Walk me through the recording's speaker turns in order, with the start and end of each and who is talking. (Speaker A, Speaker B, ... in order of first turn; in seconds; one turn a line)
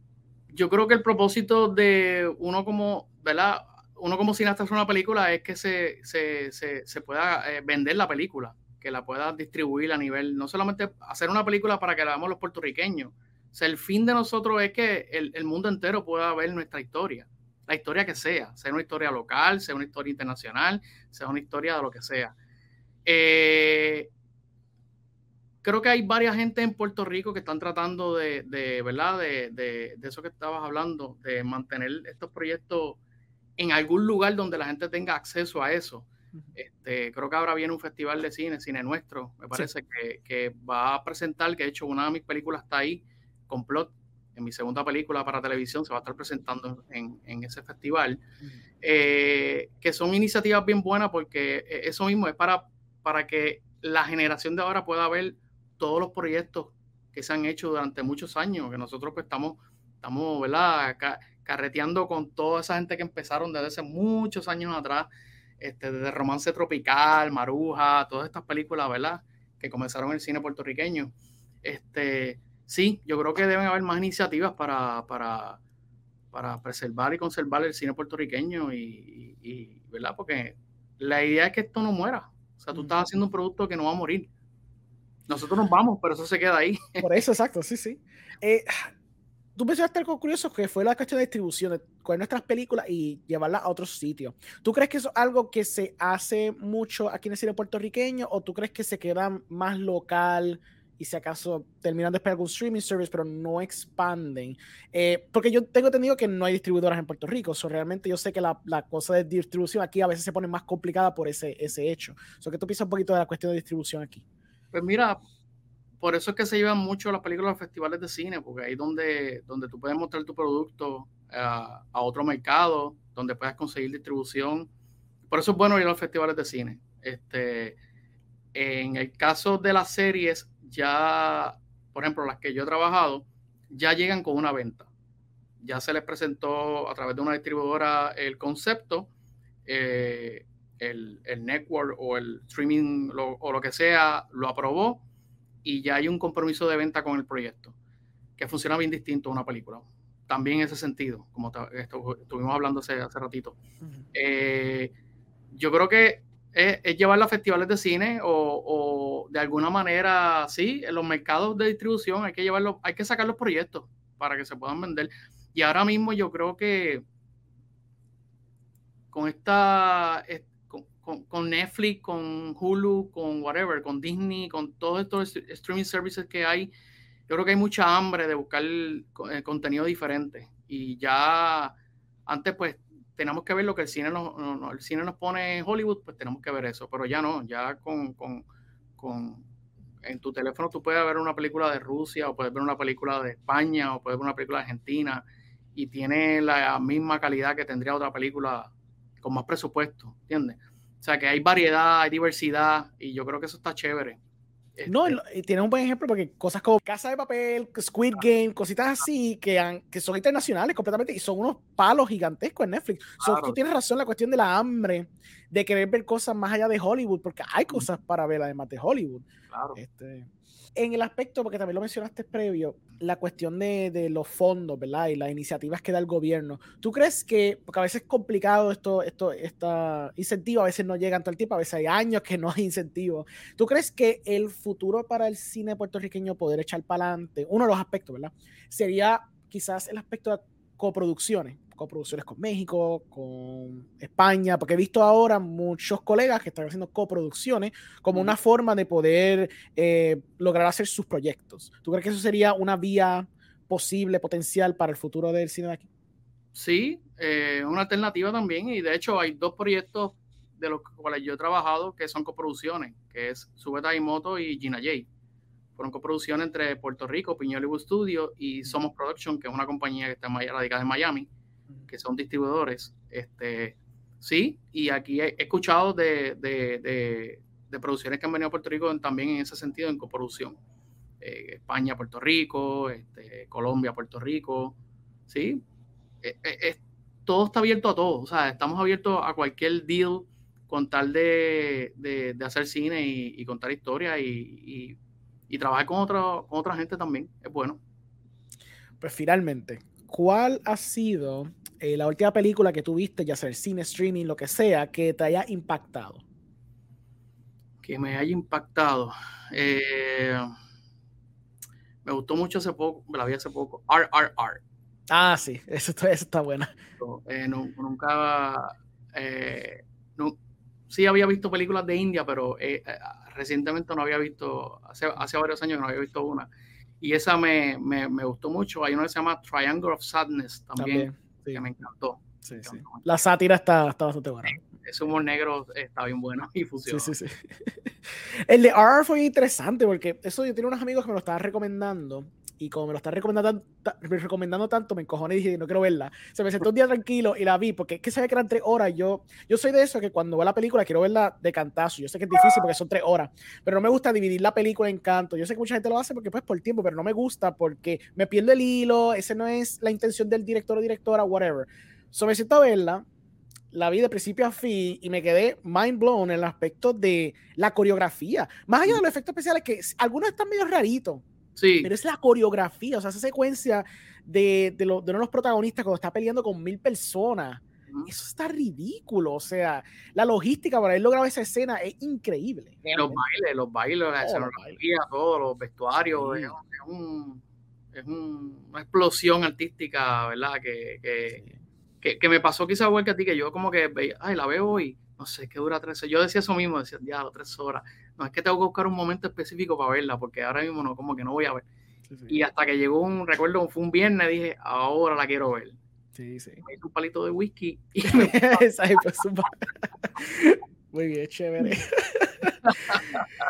Speaker A: 0.5-22.3
Speaker A: 23.1-24.1
Speaker A: 25.6-33.0
Speaker A: 33.6-48.2
Speaker A: 48.8-65.1
Speaker A: 65.6-71.1
Speaker A: 71.6-75.6
Speaker A: 76.3-84.3
Speaker B: 82.7-83.0
Speaker A: 85.3-87.2
Speaker B: 87.0-88.9
Speaker B: 89.6-114.2
Speaker A: 114.7-115.2
Speaker A: 116.0-124.7
Speaker A: 125.3-127.8
Speaker A: 128.5-134.9
Speaker A: 135.6-139.1
Speaker A: 139.7-145.0
Speaker A: 145.6-147.8
Speaker A: 148.4-153.6
Speaker A: 154.1-154.9
Speaker A: 155.5-167.1
Speaker A: 169.1-176.7
Speaker A: 177.3-181.7
Speaker A: 182.3-188.4
Speaker A: 189.0-189.4
Speaker A: 190.0-195.2
Speaker A: 195.8-198.7
Speaker A: 199.2-204.2
Speaker A: 204.8-205.2
Speaker B: 204.9-255.9
Speaker A: 213.2-213.6
Speaker A: 219.5-219.8
Speaker A: 256.5-265.1
Speaker A: 265.8-271.3
Speaker A: 271.9-280.6
Speaker A: 281.2-284.8
Speaker A: 285.3-285.6
Speaker A: 286.2-295.0
Speaker A: 295.5-297.8
Speaker B: 299.0-306.2
Speaker A: 307.8-310.5
Speaker A: 312.1-314.6
Speaker B: 315.1-316.7
Speaker A: 317.0-320.4
Speaker A: 320.9-326.5
Speaker A: 327.0-333.1
Speaker B: 330.8-331.6
Speaker B: 332.4-334.6
Speaker A: 334.6-337.2
Speaker B: 336.9-363.1
Speaker B: 363.7-371.2
Speaker A: 371.6-371.9
Speaker B: 371.8-383.2
Speaker A: 382.9-387.4
Speaker B: 384.2-384.8
Speaker B: 386.1-386.5
Speaker A: 387.9-391.4
Speaker A: 392.0-401.6
Speaker B: 402.1-402.4
Speaker A: 402.3-405.8
Speaker B: 406.1-406.6
Speaker A: 406.6-408.6
Speaker B: 408.1-413.0
Speaker A: 412.6-413.2